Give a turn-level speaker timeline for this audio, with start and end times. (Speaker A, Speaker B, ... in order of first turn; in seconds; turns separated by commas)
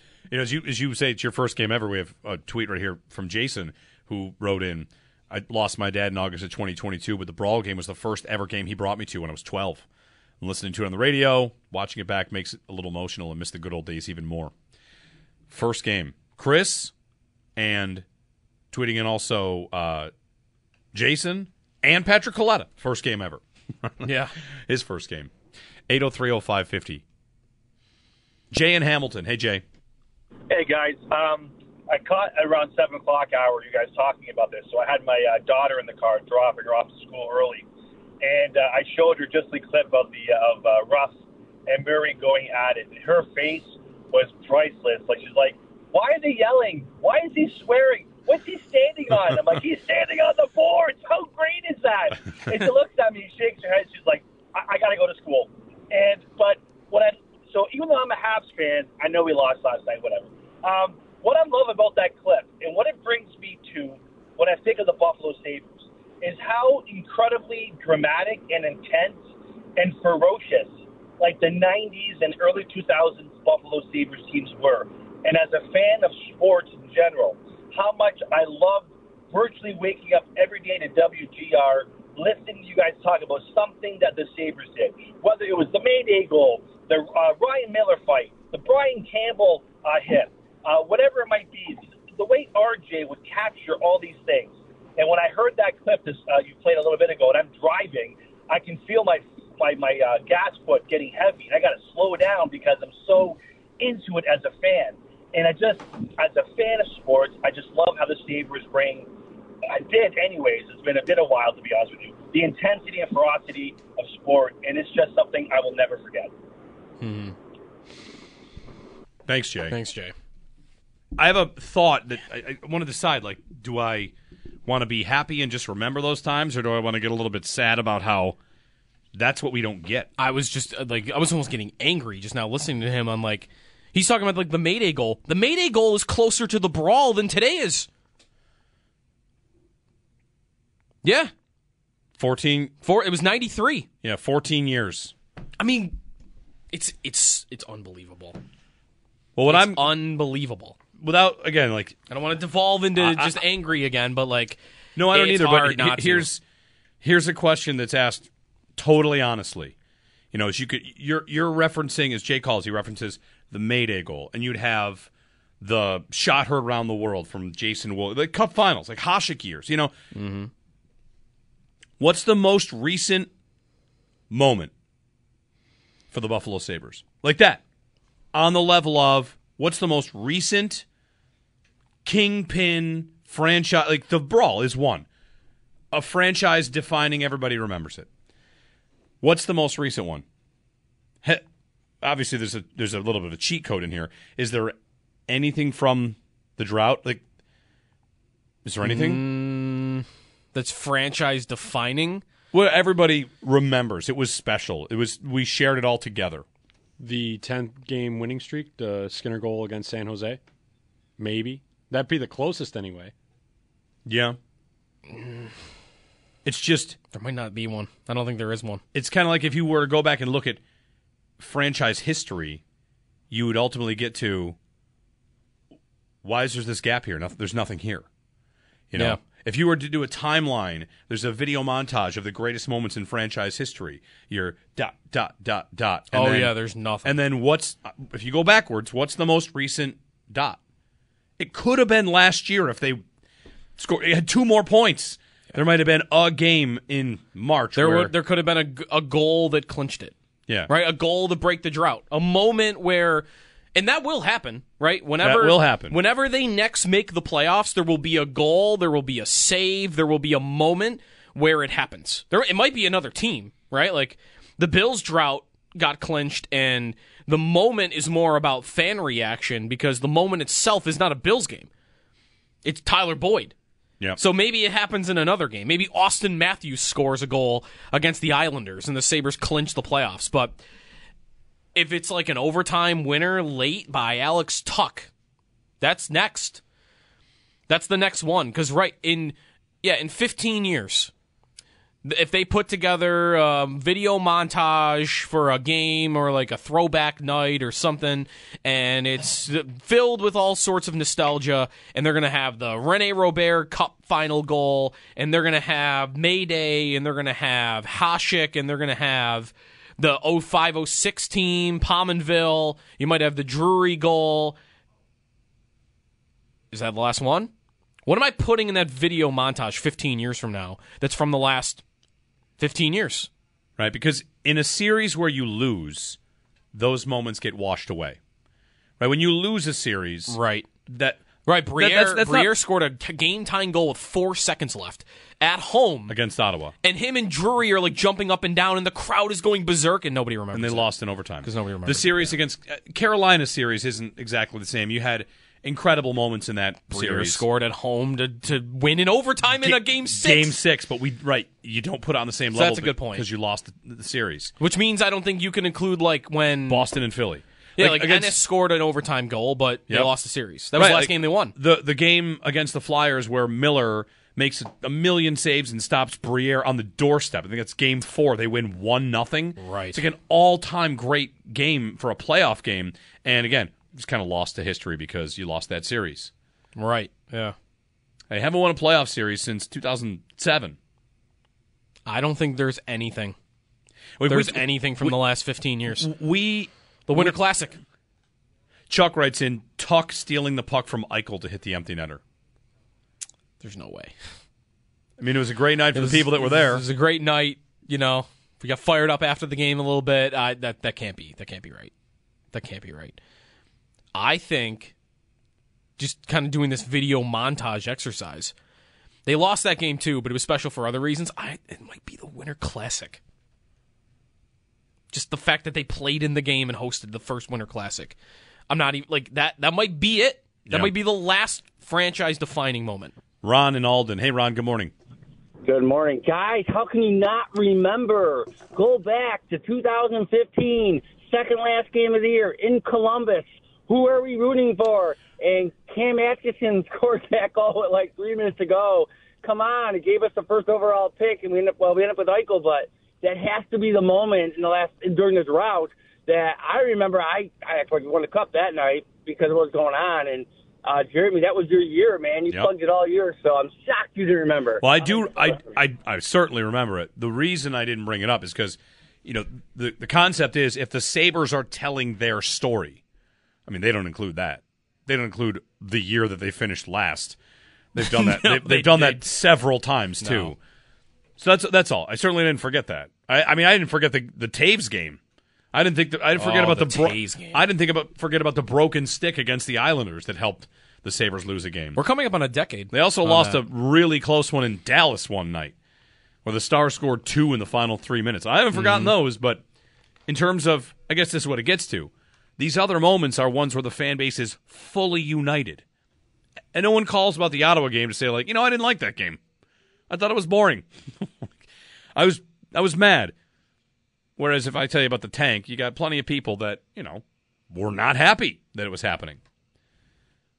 Speaker A: 0.3-9.9, Speaker A: 10.4-14.5, Speaker A: 15.5-16.9, Speaker A: 17.6-18.1, Speaker A: 18.7-20.1, Speaker A: 20.9-24.1, Speaker B: 24.0-24.4, Speaker A: 24.7-25.3, Speaker A: 25.9-27.0, Speaker A: 28.5-29.6, Speaker C: 30.5-37.6, Speaker C: 38.2-69.2, Speaker C: 69.8-109.1, Speaker C: 109.7-116.3, Speaker B: 117.0-117.4, Speaker A: 119.3-119.8, Speaker B: 119.7-120.1, Speaker A: 121.2-124.1, Speaker A: 124.7-128.4, Speaker A: 129.1-130.1, Speaker B: 130.2-137.9, Speaker B: 141.0-141.3, Speaker A: 142.2-142.7, Speaker B: 142.8-143.9, Speaker A: 144.0-145.1, Speaker B: 145.6-146.0, Speaker B: 146.7-148.4, Speaker A: 149.4-149.9, Speaker B: 149.5-150.8, Speaker A: 151.0-152.0, Speaker B: 152.1-156.3, Speaker A: 153.0-153.4, Speaker A: 155.0-156.4, Speaker A: 157.0-159.8, Speaker A: 160.3-165.1, Speaker A: 165.6-169.9, Speaker B: 170.1-170.5, Speaker A: 172.0-173.3, Speaker A: 174.3-174.7, Speaker A: 176.1-177.6, Speaker A: 178.3-180.9, Speaker A: 182.1-185.1, Speaker A: 185.9-188.1, Speaker A: 189.2-190.2, Speaker A: 192.0-194.8, Speaker A: 195.3-197.2, Speaker A: 198.7-199.2, Speaker B: 198.8-202.2, Speaker A: 202.5-206.4, Speaker D: 207.0-210.4, Speaker D: 211.2-213.1, Speaker A: 214.1-214.4, Speaker B: 215.1-215.5, Speaker A: 216.4-217.0, Speaker B: 217.1-218.8, Speaker A: 218.9-220.6, Speaker A: 221.4-222.6, Speaker A: 223.3-224.6, Speaker A: 226.2-228.1, Speaker A: 228.9-240.6, Speaker B: 236.1-237.2, Speaker A: 241.4-243.0, Speaker A: 243.8-248.1, Speaker B: 247.8-250.1, Speaker B: 250.7-271.7, Speaker A: 255.2-255.9, Speaker B: 272.6-273.5, Speaker B: 274.2-280.6, Speaker B: 281.8-285.1, Speaker B: 285.8-286.6, Speaker B: 287.7-291.1, Speaker B: 292.1-314.6, Speaker B: 316.7-317.5, Speaker B: 318.1-321.8, Speaker B: 322.6-323.3, Speaker A: 323.8-326.2, Speaker A: 326.7-328.2, Speaker A: 329.0-332.5, Speaker B: 330.3-330.7, Speaker B: 331.4-336.1, Speaker A: 336.1-336.7, Speaker B: 336.8-340.9, Speaker A: 340.5-347.4, Speaker B: 341.4-342.4, Speaker B: 346.9-350.6, Speaker A: 349.6-354.5, Speaker B: 352.5-353.3, Speaker B: 354.6-356.9, Speaker A: 356.7-358.4, Speaker B: 357.8-361.5, Speaker A: 360.7-376.3, Speaker B: 369.6-370.0, Speaker B: 376.8-377.6, Speaker A: 378.3-380.8, Speaker B: 382.1-383.4, Speaker A: 384.2-385.2, Speaker B: 384.3-386.1, Speaker A: 385.9-387.4, Speaker B: 387.1-387.8, Speaker A: 388.9-392.2, Speaker B: 393.6-394.2, Speaker A: 395.2-396.8, Speaker B: 395.9-401.9, Speaker B: 402.5-403.2, Speaker B: 404.1-404.9, Speaker B: 406.0-408.5, Speaker B: 409.3-413.2, Speaker B: 415.1-418.2, Speaker B: 418.7-423.1, Speaker A: 420.7-420.9, Speaker A: 423.4-424.9, Speaker E: 425.6-455.5, Speaker A: 454.8-463.0, Speaker A: 463.7-467.4, Speaker A: 467.9-470.6, Speaker B: 468.0-469.3, Speaker B: 470.2-470.5, Speaker A: 471.4-475.2, Speaker A: 475.7-482.0, Speaker B: 476.4-477.6, Speaker B: 481.9-483.6, Speaker A: 482.9-485.8, Speaker A: 486.4-489.6, Speaker B: 488.7-489.1, Speaker A: 490.3-495.8, Speaker A: 496.7-499.4, Speaker A: 500.1-501.5, Speaker A: 502.1-503.3, Speaker A: 504.4-509.4